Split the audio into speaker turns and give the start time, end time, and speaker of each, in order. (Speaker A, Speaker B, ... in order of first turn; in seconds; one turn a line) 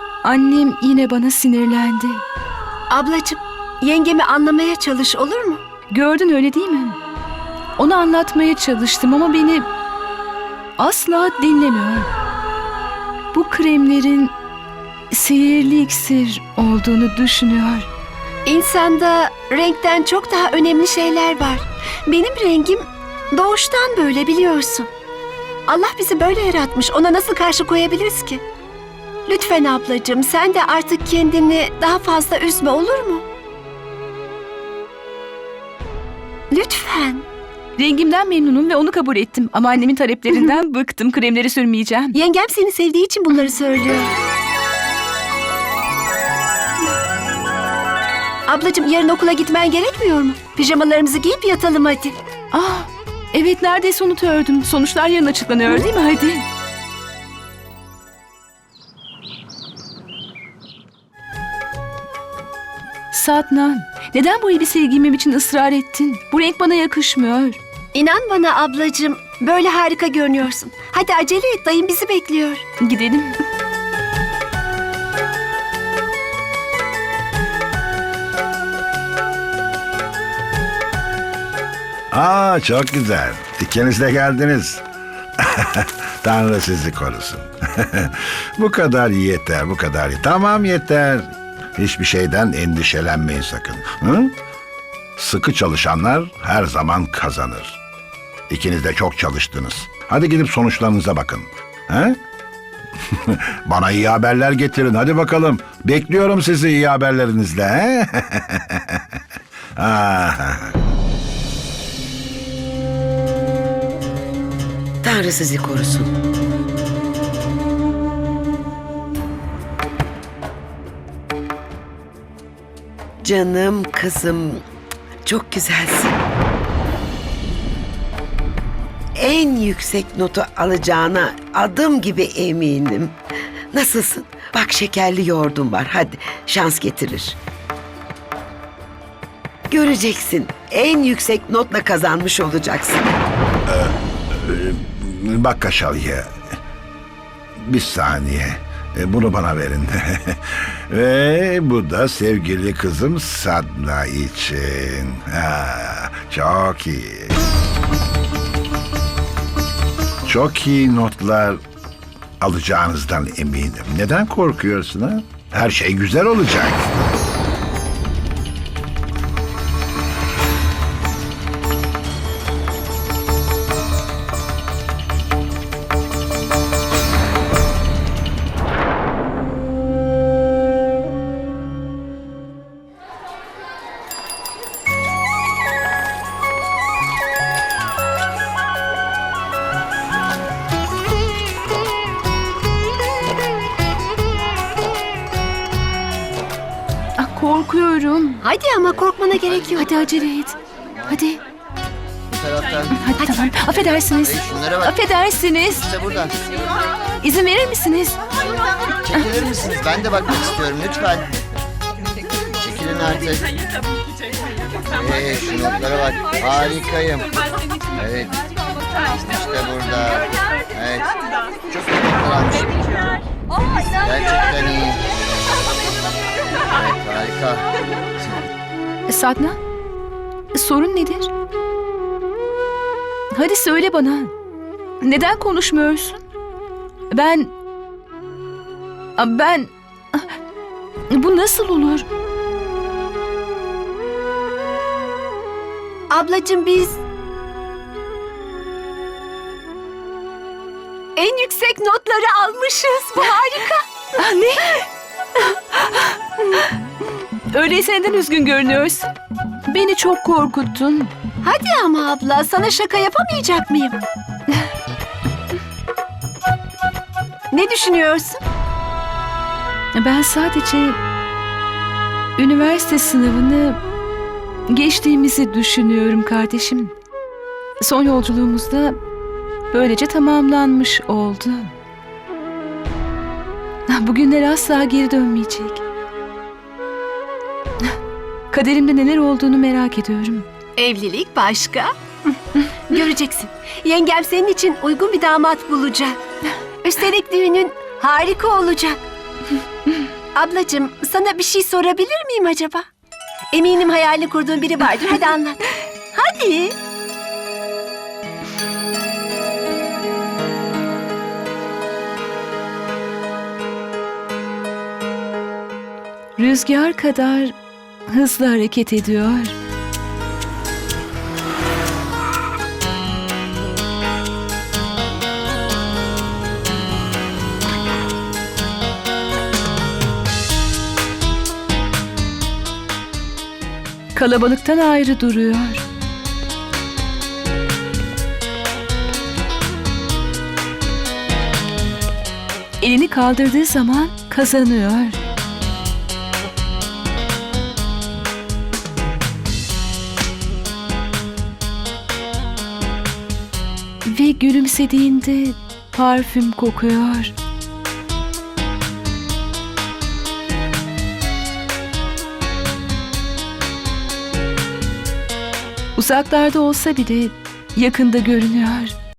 Speaker A: 0.2-2.2
Speaker B: 2.9-5.6
Speaker A: 5.9-7.0
Speaker A: 7.8-9.7
Speaker A: 10.8-12.1
Speaker A: 13.3-14.3
Speaker A: 15.1-17.9
Speaker B: 18.4-24.9
Speaker B: 25.7-28.4
Speaker B: 29.3-33.2
Speaker B: 36.5-37.2
Speaker A: 37.8-42.1
Speaker B: 42.1-44.1
Speaker B: 48.5-52.1
Speaker A: 52.5-56.5
Speaker A: 63.1-67.6
Speaker B: 67.9-72.6
Speaker A: 72.8-73.4
Speaker C: 82.1-84.8
Speaker C: 85.4-94.3
Speaker C: 95.2-97.8
Speaker C: 98.5-102.2
Speaker C: 103.1-109.0
Speaker C: 109.8-110.8
Speaker D: 115.0-116.1
Speaker D: 123.2-124.6
Speaker D: 125.2-126.2
Speaker D: 129.1-133.2
Speaker D: 133.7-137.4
Speaker D: 139.7-143.1
Speaker C: 143.7-146.4
Speaker C: 147.6-157.4
Speaker C: 160.2-161.6
Speaker C: 162.4-166.9
Speaker A: 197.2-198.4
Speaker B: 198.4-200.1
Speaker A: 199.8-200.6
Speaker A: 201.1-201.4
Speaker E: 202.3-203.0
Speaker A: 202.9-205.9
Speaker E: 204.2-204.9
Speaker E: 205.8-206.4
Speaker A: 207.2-208.2
Speaker E: 209.0-211.3
Speaker E: 212.6-213.6
Speaker E: 215.0-217.3
Speaker E: 217.9-218.4
Speaker E: 218.9-223.1
Speaker E: 223.9-225.1
Speaker E: 226.7-227.7
Speaker A: 229.1-229.6
Speaker A: 230.5-231.3
Speaker A: 233.3-234.3
Speaker A: 235.0-236.2
Speaker A: 237.1-237.5
Speaker A: 239.2-240.3
Speaker A: 241.1-242.1
Speaker B: 246.1-247.0
Speaker B: 251.2-253.8
Speaker A: 254.2-254.8
Speaker A: 255.5-256.6
Speaker A: 257.5-259.1
Speaker A: 259.7-261.1
Speaker B: 261.4-264.0
Speaker B: 267.5-268.4
Speaker A: 269.9-271.0
Speaker A: 272.4-273.8
Speaker A: 274.7-276.9
Speaker A: 277.8-279.0
Speaker A: 279.7-281.7
Speaker A: 283.9-285.8
Speaker A: 288.5-290.4
Speaker B: 290.8-292.4
Speaker B: 292.9-296.2
Speaker B: 296.8-299.0
Speaker B: 300.3-302.8
Speaker B: 303.5-306.7
Speaker A: 316.4-317.6
Speaker A: 318.1-319.5
Speaker A: 334.1-335.8
Speaker A: 342.8-345.2
Speaker A: 354.0-357.3
Speaker A: 365.9-368.9